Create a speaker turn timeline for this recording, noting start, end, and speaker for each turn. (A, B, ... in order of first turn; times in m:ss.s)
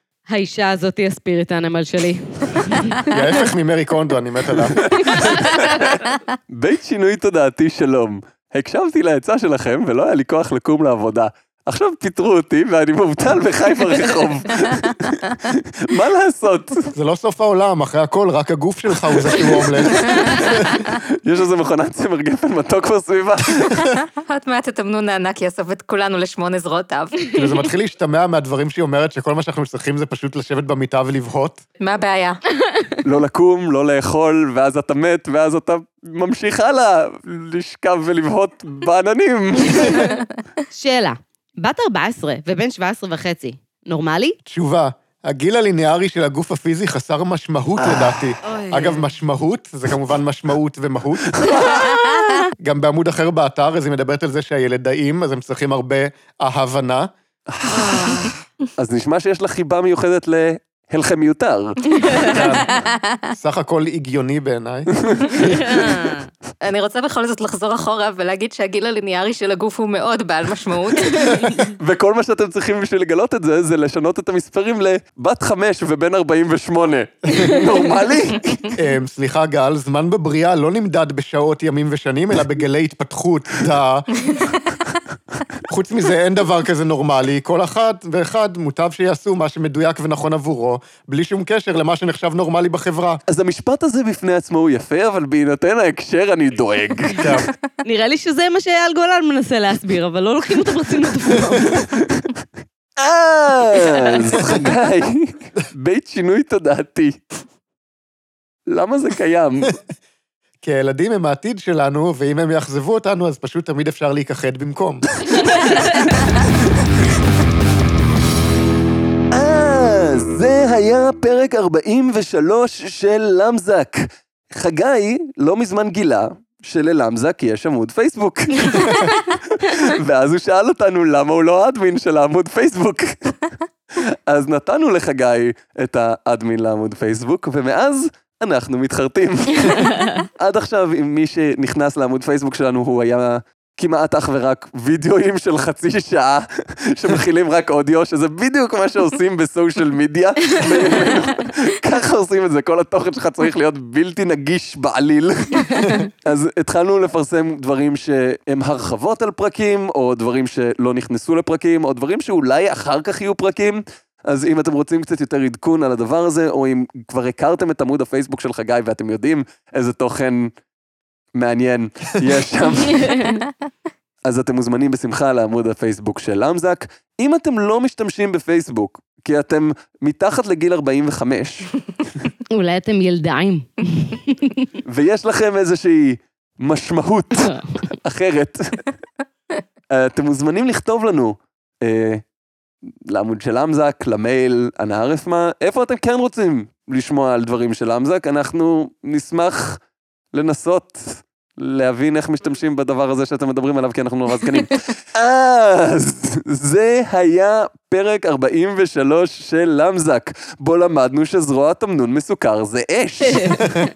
0:00.3-0:03.2 A
0:03.0-0:05.2 B
0:04.5-0:05.7 C
0:05.0-0:06.0 A
0:05.5-0:06.2 D
0:06.5-0:16.9 C
0:16.9-0:20.8 B
0:19.3-0:23.9 C
0:23.7-0:27.3 D
0:27.3-0:31.6 B
0:31.8-0:32.4 D
0:33.0-0:40.0 C
0:39.8-0:40.1 A
0:40.7-0:44.4 A
0:44.4-0:51.4 B
0:48.4-0:49.1 A
0:51.3-0:52.0 C
0:52.6-0:57.1 B
0:57.5-1:02.3 C
0:57.7-0:58.3 A
1:02.1-1:02.4 A
1:02.2-1:03.2 D
1:02.3-1:02.7 B
1:03.3-1:04.9 B
1:05.0-1:05.9 C
1:05.4-1:06.2 A
1:06.6-1:11.6 D
1:11.8-1:18.6 C
1:18.7-1:24.1 B
1:25.7-1:33.2 B
1:33.3-1:37.2 C
1:37.2-1:37.5 B
1:37.8-1:41.8 A
1:42.0-1:42.3 C
1:43.0-1:47.2 C
1:44.1-1:44.5 A
1:48.7-1:49.8 C
1:50.6-1:55.0 B
1:55.5-1:56.2 A
1:59.3-2:13.3 C
2:14.0-2:50.5 C
2:51.3-2:53.1 C
2:52.9-2:53.4 A
2:54.2-3:01.7 C
3:02.5-3:04.6 A
3:04.8-3:08.8 C
3:09.9-3:12.2 C
3:12.8-3:19.8 C
3:20.3-3:33.6 C
3:33.2-3:33.7 A